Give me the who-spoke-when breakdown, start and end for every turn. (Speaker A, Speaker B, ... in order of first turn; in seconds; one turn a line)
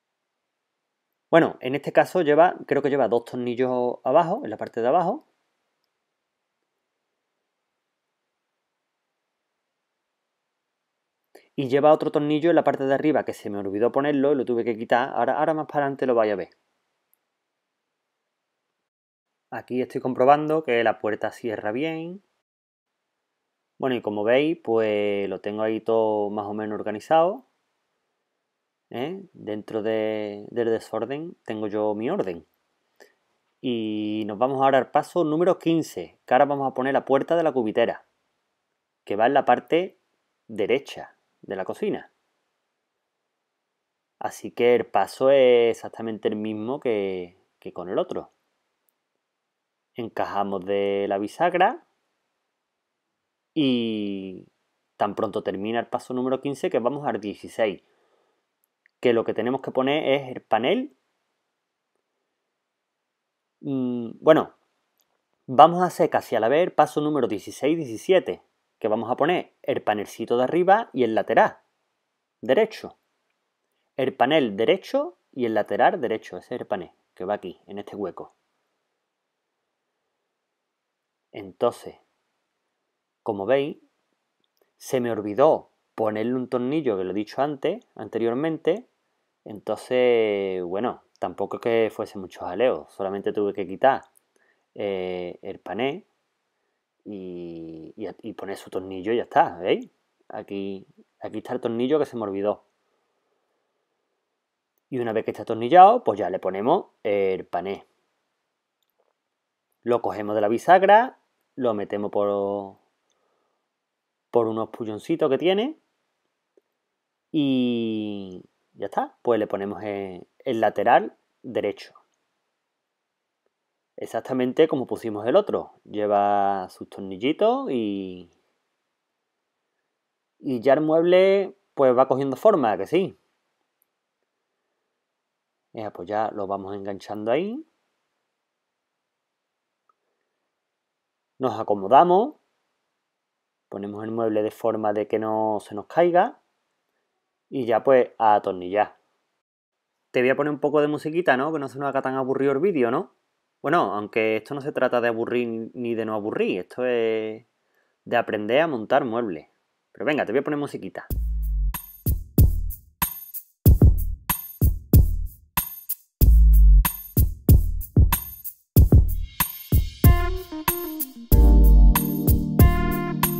Speaker A: 1.3-5.2
Speaker A: 11.6-16.5
Speaker A: 19.5-22.2
Speaker A: 23.8-27.5
Speaker A: 28.9-32.5
Speaker A: 33.6-38.0
Speaker A: 39.0-40.0
Speaker A: 40.5-42.1
Speaker A: 44.2-48.3
Speaker A: 50.0-51.8
Speaker A: 53.5-57.8
Speaker A: 59.0-60.9
Speaker A: 63.6-64.5
Speaker A: 65.5-71.6
Speaker A: 72.4-73.0
Speaker A: 74.0-78.3
Speaker A: 81.3-82.0
Speaker A: 83.2-83.8
Speaker A: 84.8-88.8
Speaker A: 89.5-94.1
Speaker A: 94.8-96.1
Speaker A: 97.0-102.6
Speaker A: 104.9-107.8
Speaker A: 109.8-112.8
Speaker A: 114.3-115.8
Speaker A: 117.3-122.0
Speaker A: 124.0-128.3
Speaker A: 130.4-133.2
Speaker A: 135.7-137.6
Speaker A: 141.4-142.4
Speaker A: 143.7-146.3
Speaker A: 147.5-148.9
Speaker A: 150.1-153.1
Speaker A: 153.6-157.4
Speaker A: 158.1-161.1